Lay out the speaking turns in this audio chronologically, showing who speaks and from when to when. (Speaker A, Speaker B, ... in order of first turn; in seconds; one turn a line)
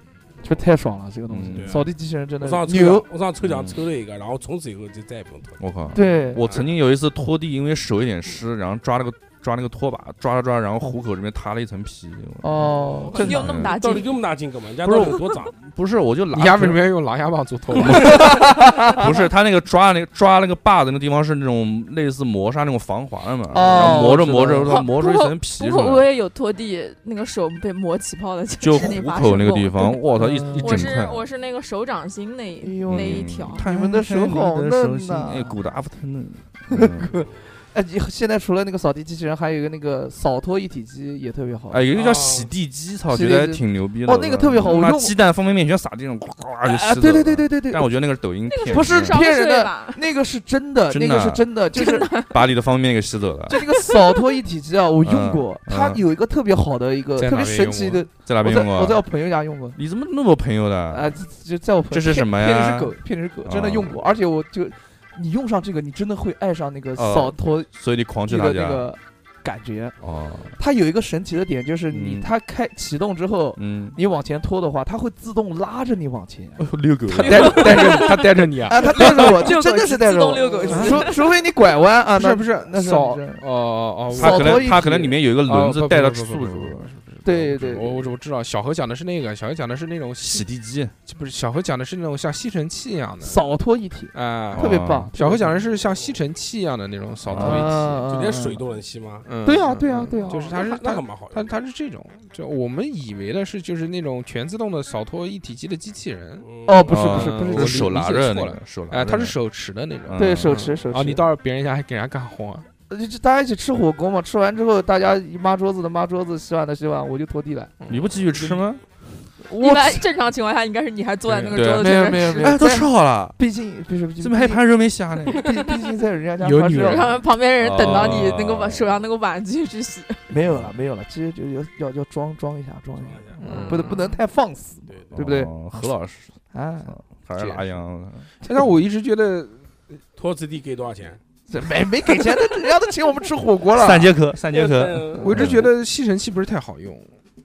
Speaker A: 0.4-3.0
Speaker B: 1.3-1.8
Speaker C: 1.5-1.9
Speaker C: 2.4-5.6
Speaker B: 3.4-3.8
Speaker B: 5.6-13.8
Speaker A: 5.9-6.4
Speaker C: 6.4-6.7
Speaker A: 12.4-13.9
Speaker C: 13.0-15.5
Speaker D: 13.1-14.1
Speaker B: 14.8-16.8
Speaker E: 16.3-18.1
Speaker B: 17.7-26.0
Speaker A: 17.9-19.2
Speaker A: 23.5-24.8
Speaker D: 23.7-24.1
Speaker D: 24.6-30.0
Speaker B: 28.6-31.2
Speaker A: 30.1-31.0
Speaker D: 30.5-33.7
Speaker A: 32.6-35.6
Speaker B: 32.9-37.1
Speaker A: 36.7-41.8
Speaker B: 41.7-49.2
Speaker C: 41.9-42.5
Speaker A: 43.1-45.1
Speaker A: 46.6-47.9
Speaker D: 48.5-50.0
Speaker A: 48.7-52.1
Speaker B: 50.9-51.5
Speaker D: 51.7-52.4
Speaker B: 52.2-53.6
Speaker A: 53.5-59.8
Speaker D: 53.7-54.2
Speaker B: 55.0-56.0
Speaker E: 57.2-58.0
Speaker B: 58.2-59.0
Speaker B: 59.8-61.1
Speaker A: 60.9-67.7
Speaker B: 61.9-64.0
Speaker B: 66.9-68.9
Speaker A: 68.2-70.0
Speaker B: 70.0-70.5
Speaker A: 70.6-76.6
Speaker B: 71.9-72.3
Speaker B: 73.6-74.0
Speaker B: 76.6-78.0
Speaker E: 77.1-79.4
Speaker D: 77.5-78.1
Speaker A: 78.7-83.4
Speaker D: 78.8-81.3
Speaker E: 80.7-81.1
Speaker E: 82.2-90.5
Speaker A: 84.1-84.9
Speaker B: 84.1-86.9
Speaker A: 87.2-88.1
Speaker B: 90.2-90.9
Speaker E: 91.0-93.4
Speaker A: 93.2-95.6
Speaker E: 94.1-98.0
Speaker B: 94.5-95.1
Speaker B: 97.2-97.7
Speaker A: 97.3-98.6
Speaker C: 98.1-99.3
Speaker E: 99.2-112.7
Speaker A: 99.4-100.6
Speaker C: 100.2-101.5
Speaker C: 106.4-106.9
Speaker A: 106.7-107.9
Speaker B: 106.9-109.3
Speaker B: 110.0-110.6
Speaker A: 110.2-111.2
Speaker A: 112.9-117.7
Speaker E: 117.8-118.6
Speaker B: 117.9-118.8
Speaker D: 119.5-122.6
Speaker A: 119.5-120.0
Speaker E: 121.2-121.6
Speaker B: 121.5-123.4
Speaker A: 121.8-124.6
Speaker B: 124.2-125.4
Speaker A: 125.2-127.2
Speaker E: 126.4-127.2
Speaker D: 126.8-130.3
Speaker B: 127.6-129.0
Speaker E: 127.8-128.2
Speaker A: 130.3-135.5
Speaker B: 130.4-130.7
Speaker C: 133.0-133.8
Speaker E: 133.4-133.9
Speaker D: 133.4-134.2
Speaker C: 134.9-135.1
Speaker B: 135.1-136.3
Speaker A: 136.5-136.9
Speaker B: 136.8-138.3
Speaker E: 137.4-137.7
Speaker E: 138.4-139.6
Speaker C: 140.2-141.2
Speaker A: 141.5-144.1
Speaker B: 143.7-145.7
Speaker C: 144.5-145.3
Speaker E: 145.2-147.1